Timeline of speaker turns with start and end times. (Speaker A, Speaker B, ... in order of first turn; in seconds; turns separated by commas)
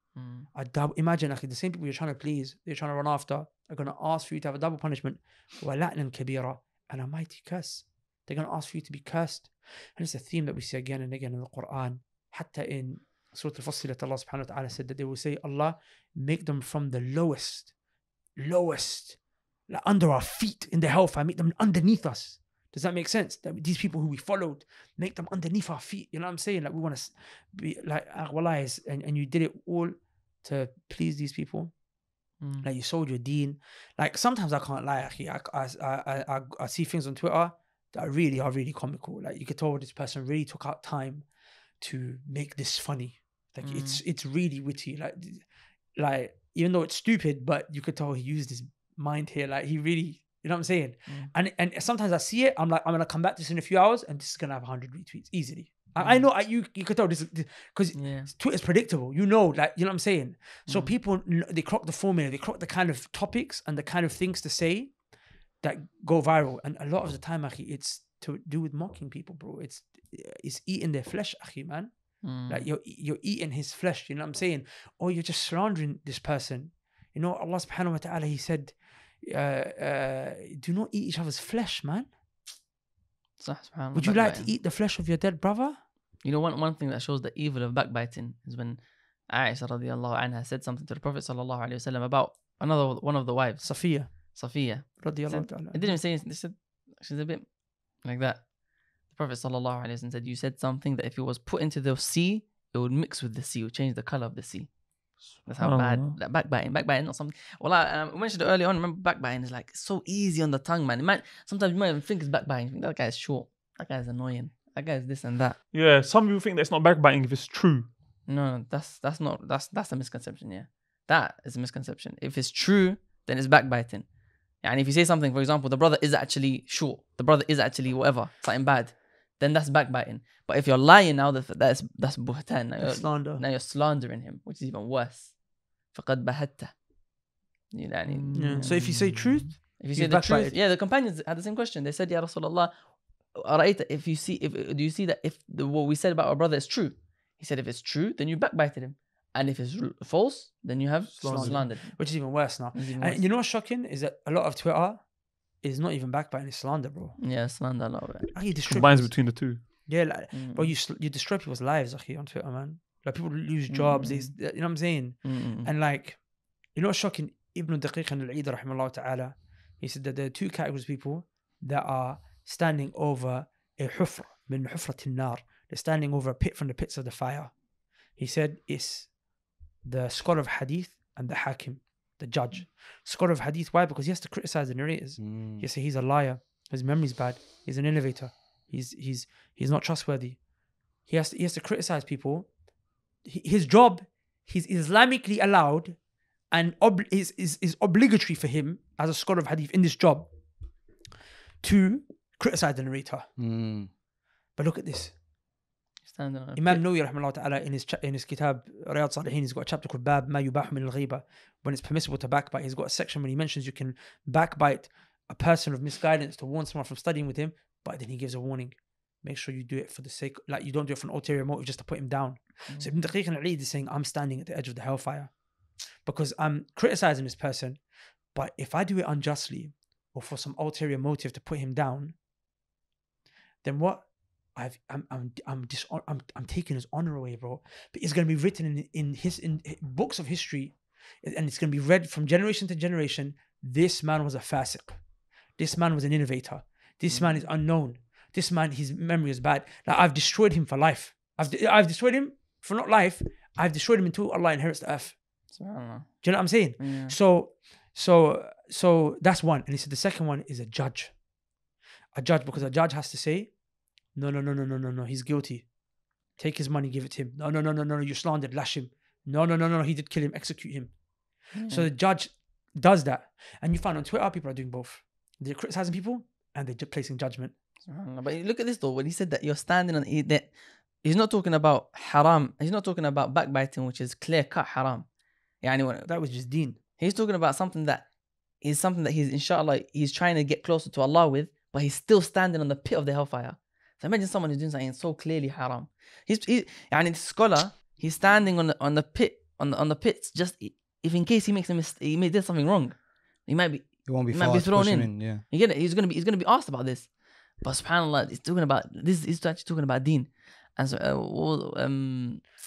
Speaker A: 0.1-0.5, Speaker B: 0.5-17.8, Speaker B: 18.4-31.7, Speaker A: 32.4-32.6, Speaker B: 32.6-65.0, Speaker A: 43.6-44.0, Speaker A: 56.0-56.3, Speaker A: 57.9-58.3, Speaker A: 60.7-61.0, Speaker B: 65.6-82.1, Speaker A: 72.2-72.7, Speaker A: 83.4-84.5, Speaker B: 83.9-85.8, Speaker A: 86.2-115.6, Speaker B: 93.6-96.0, Speaker C: 105.6-106.2, Speaker C: 115.7-117.9, Speaker A: 118.2-124.1, Speaker A: 124.6-136.8, Speaker B: 132.8-133.4, Speaker A: 137.7-138.8, Speaker C: 138.1-139.5, Speaker B: 138.3-140.6, Speaker A: 139.8-153.2, Speaker C: 151.2-151.6, Speaker B: 151.2-157.2, Speaker A: 157.2-158.3, Speaker B: 158.3-179.2, Speaker C: 158.6-159.6, Speaker A: 160.3-160.7, Speaker A: 163.7-164.6, Speaker A: 165.2-165.7, Speaker B: 179.8-190.4, Speaker D: 185.2-185.7, Speaker B: 191.0-192.5, Speaker B: 193.2-200.3, Speaker B: 201.6-203.3, Speaker D: 203.4-203.9, Speaker B: 204.5-205.2, Speaker A: 206.0-206.8, Speaker B: 206.5-225.4, Speaker B: 226.0-232.1, Speaker B: 233.6-245.0, Speaker B: 245.6-255.4, Speaker A: 247.1-247.4, Speaker A: 255.5-257.1, Speaker B: 256.2-261.2, Speaker B: 262.1-277.5, Speaker A: 271.5-271.9, Speaker A: 277.8-285.1, Speaker A: 285.6-286.1, Speaker B: 286.1-286.8, Speaker A: 287.0-288.1, Speaker A: 288.6-312.5, Speaker D: 304.1-305.4